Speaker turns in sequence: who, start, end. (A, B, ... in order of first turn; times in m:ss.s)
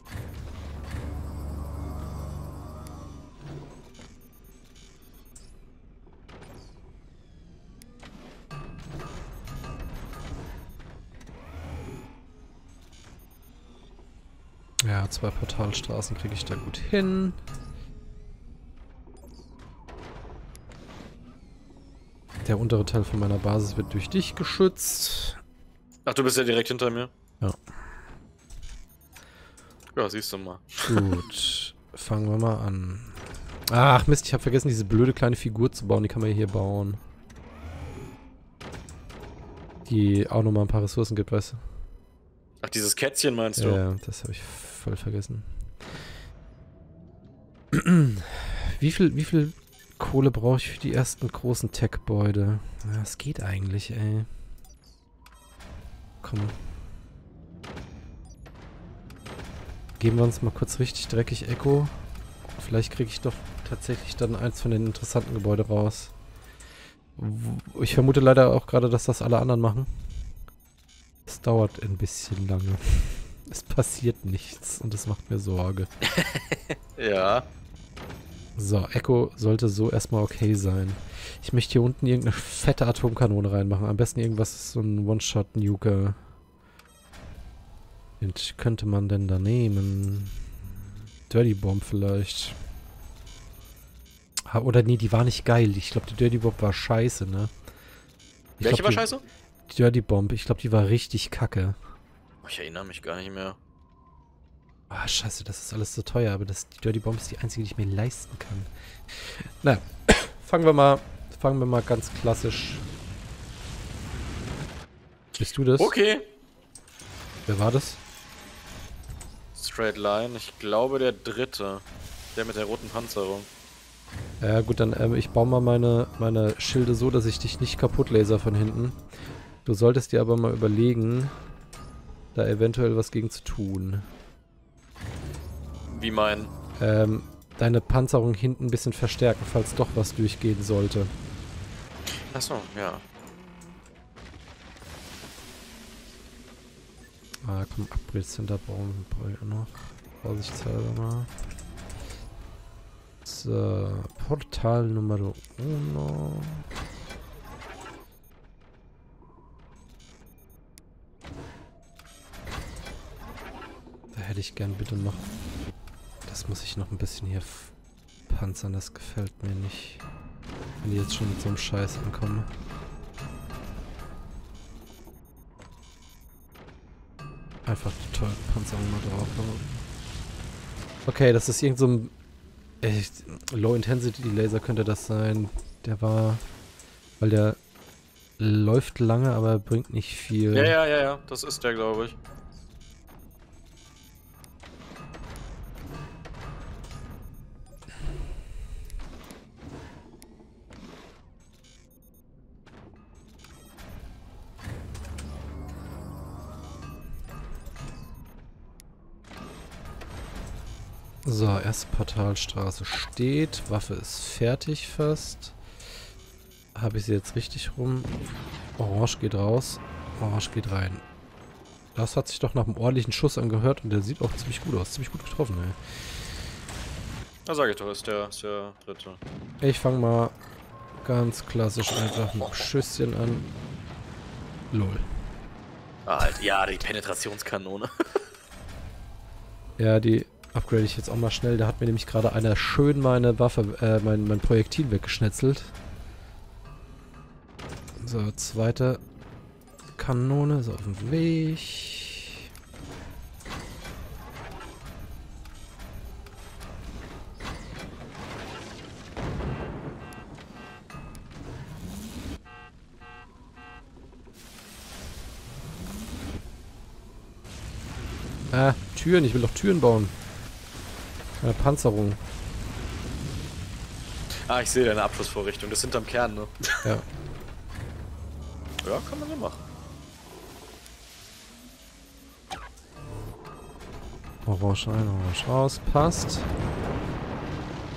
0:14.8-0:17.4 A
0:22.4-0:25.4 A
0:26.1-0:27.1 B
0:30.0-0:31.2 B
0:30.9-0:37.0 A
0:39.9-0:41.6 A
0:42.6-0:43.8 B
0:43.6-0:45.5 A
0:47.7-0:54.3 A
0:56.2-0:56.6 A
1:00.0-1:01.9 A
1:02.6-1:06.2 A
1:07.2-1:09.9 A
1:11.3-1:15.9 A
1:16.0-1:17.5 B
1:18.6-1:26.2 A
1:28.2-1:30.7 A
1:31.3-1:32.6 A
1:34.5-1:37.5 A
1:38.6-1:39.2 B
1:38.6-1:39.1 A
1:39.7-1:41.8 A
1:42.4-1:43.6 B
1:44.9-1:52.8 A
1:55.4-1:55.9 A
1:55.8-1:56.3 B
1:57.5-1:58.0 A
1:59.6-2:01.8 B
2:02.4-2:03.5 B
2:04.4-2:09.0 A
2:09.6-2:11.4 A
2:12.3-2:14.1 A
2:15.9-2:16.5 B
2:16.8-2:21.1 A
2:22.1-2:23.0 B
2:27.4-2:31.3 A
2:33.2-2:36.7 A
2:44.1-2:45.3 A
2:46.3-2:47.7 A
2:48.3-2:50.0 A
2:50.8-2:52.5 A
2:57.6-2:59.8 A
3:01.1-3:02.1 A
3:02.8-3:06.4 A
3:07.2-3:07.6 A
3:08.4-3:10.8 A
3:10.5-3:12.2 B
3:31.2-3:35.6 A
3:36.8-3:38.1 A
3:38.8-3:41.0 A
3:42.0-3:45.8 A
3:47.5-3:49.2 B
3:49.6-3:50.3 A
3:51.0-3:53.5 A
3:54.7-3:55.0 A
3:56.1-3:58.3 B
3:59.8-4:05.8 A
4:08.0-4:09.0 A
4:10.0-4:12.4 A
4:28.5-4:30.2 A
4:31.4-4:32.2 A
4:34.5-4:36.7 B
4:38.8-4:39.6 B
4:44.5-4:46.5 A